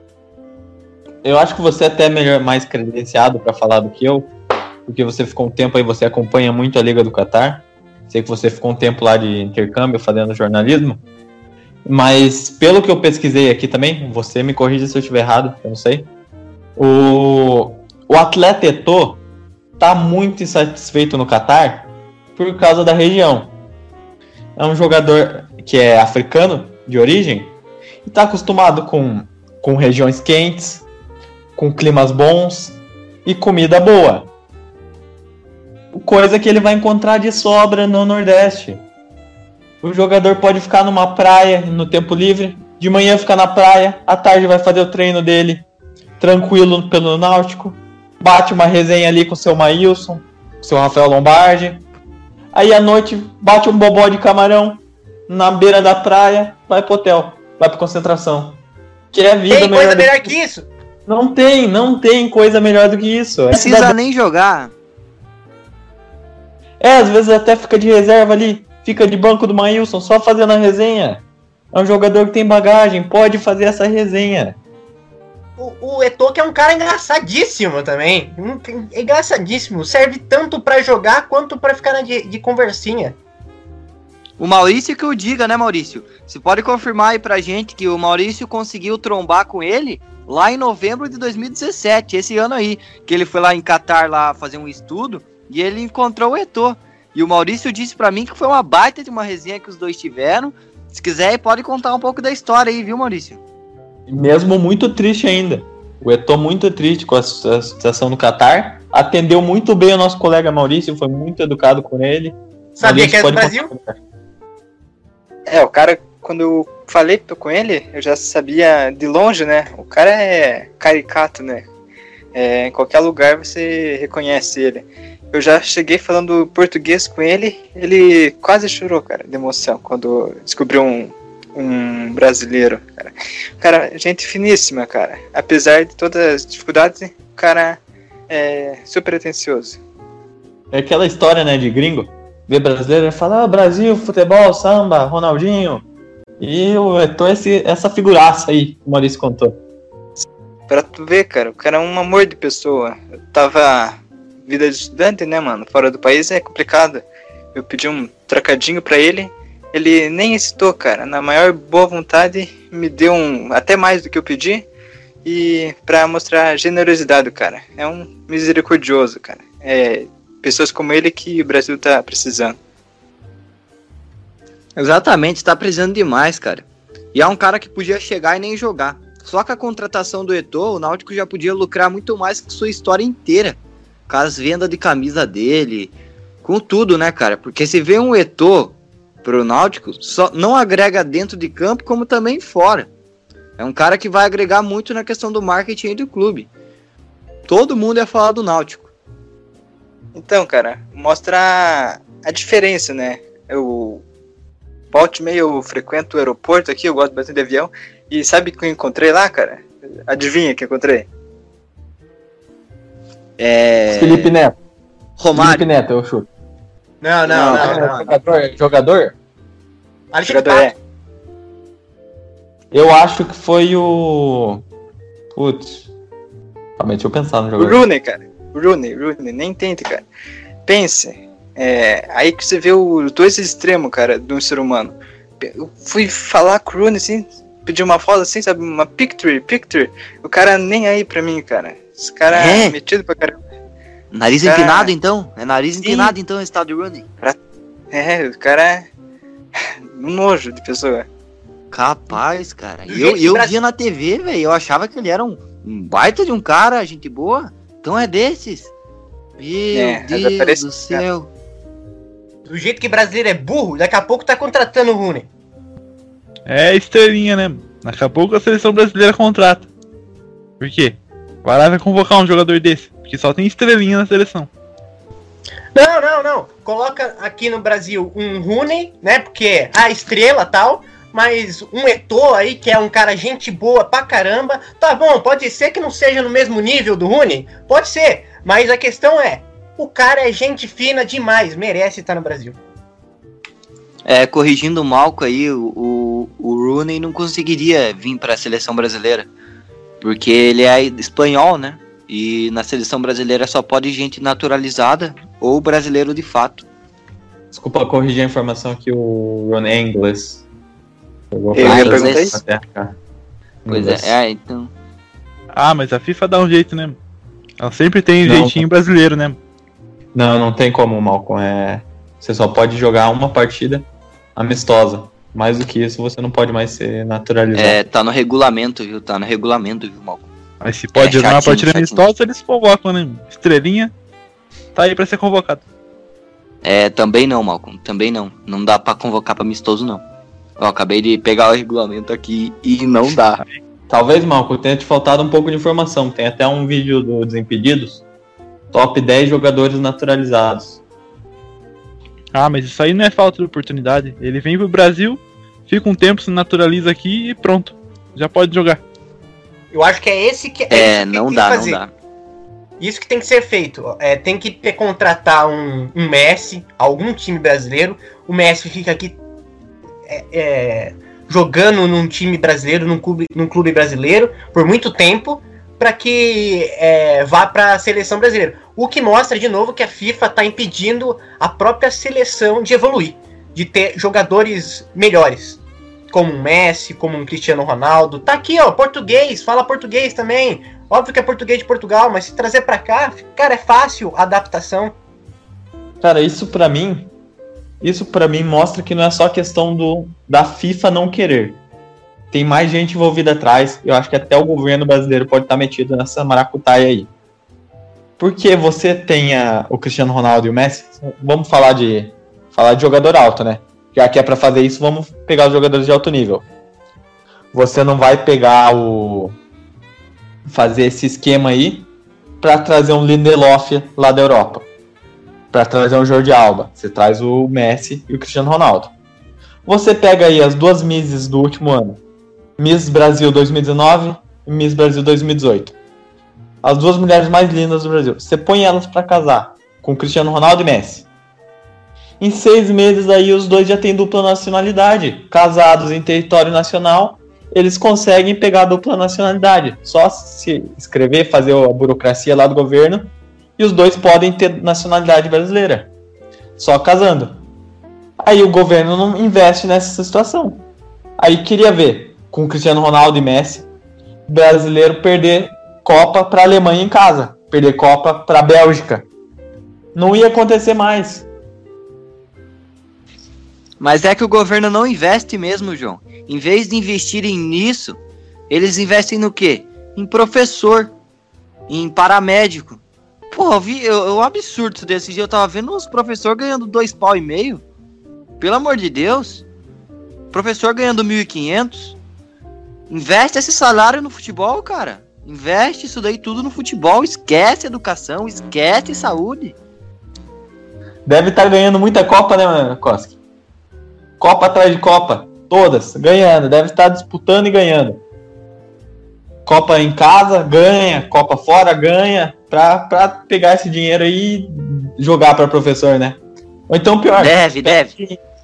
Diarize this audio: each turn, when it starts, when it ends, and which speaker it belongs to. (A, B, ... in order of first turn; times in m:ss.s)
0:01.2-0:04.3 A
0:04.9-0:11.0 A
0:11.8-0:16.1 A
0:16.8-0:19.2 A
0:19.8-0:23.5 A
0:24.6-0:27.5 A
0:28.0-0:30.9 A
0:31.6-0:34.3 A
0:35.9-0:38.8 A
0:39.8-0:45.6 A
0:46.2-0:51.8 A
0:52.5-1:00.3 A
0:59.5-1:00.7 B
1:01.1-1:04.0 A
1:03.5-1:04.7 C
1:06.8-1:14.6 A
1:15.6-1:23.2 B
1:24.4-1:43.4 C
1:44.1-1:54.0 A
1:52.8-1:53.7 B
1:55.5-2:01.7 D
2:02.3-2:19.8 D
2:20.7-2:25.8 A
2:26.4-2:29.6 A
2:30.7-2:44.7 D
2:45.2-2:52.6 D
2:54.8-3:12.9 C
3:13.6-3:16.5 C
3:17.5-3:18.9 C
3:20.1-3:24.0 D
3:24.9-3:31.1 D
3:33.4-3:34.3 C
3:33.9-3:34.6 A
3:35.2-3:35.6 C
3:35.3-3:36.3 A
3:37.0-3:38.0 B
3:37.3-3:38.0 C
3:37.3-3:39.2 A
3:37.4-3:37.9 D
3:40.1-3:40.7 B
3:40.2-3:40.8 D
3:42.7-3:44.6 A
3:45.3-3:45.9 A
3:46.8-3:47.8 A
3:47.6-3:50.0 D
3:50.6-4:03.4 D
4:02.3-4:02.8 C
4:04.1-4:07.0 C
4:04.4-4:04.9 D
4:05.8-4:06.1 D
4:07.9-4:08.9 D
4:09.9-4:11.1 D
4:11.7-4:18.7 C
4:12.9-4:13.6 B
4:19.4-4:21.3 C
4:19.7-4:21.0 D
4:22.5-4:25.3 B
4:26.5-4:29.7 E
4:30.6-4:34.5 E
4:35.7-4:52.6 B
4:54.0-4:59.3 C
5:00.0-5:06.6 C
5:07.5-5:10.4 A
5:11.3-5:13.0 A
5:11.5-5:12.4 D
5:11.6-5:12.3 C
5:13.6-5:14.2 A
5:13.7-5:14.7 C
5:15.5-5:17.0 E
5:17.6-5:19.4 E
5:18.2-5:18.6 A
5:20.1-5:27.8 A
5:27.6-5:30.3 C
5:30.6-5:33.9 E
5:31.0-5:32.1 C
5:34.7-5:35.6 E
5:36.6-5:40.0 C
5:40.6-5:43.4 C
5:43.9-5:48.0 A
5:48.7-5:50.8 A
5:52.3-5:58.8 E
5:59.7-6:01.8 B
6:00.7-6:01.9 C
6:02.8-6:09.2 B
6:10.1-6:35.0 B
6:36.0-6:37.1 A
6:37.8-6:41.6 A
6:42.3-6:47.1 A
6:48.2-6:56.5 A
6:57.5-6:59.4 A
7:00.5-7:01.9 A
7:02.4-7:04.7 A
7:05.5-7:08.9 A
7:09.6-7:12.0 A
7:12.6-7:15.8 A
7:16.6-7:21.1 A
7:22.2-7:35.9 A
7:36.6-7:37.4 A
7:38.2-7:40.6 A
7:41.2-7:43.7 A
7:44.3-7:49.0 A
7:50.0-7:51.3 A
7:53.8-7:58.0 C
7:58.5-8:01.0 C
8:01.7-8:07.6 C
8:08.4-8:09.4 C
8:10.3-8:12.0 C
8:12.9-8:19.6 C
8:21.0-8:23.1 A
8:24.2-8:28.0 A
8:29.4-8:38.2 A
8:37.1-8:38.0 C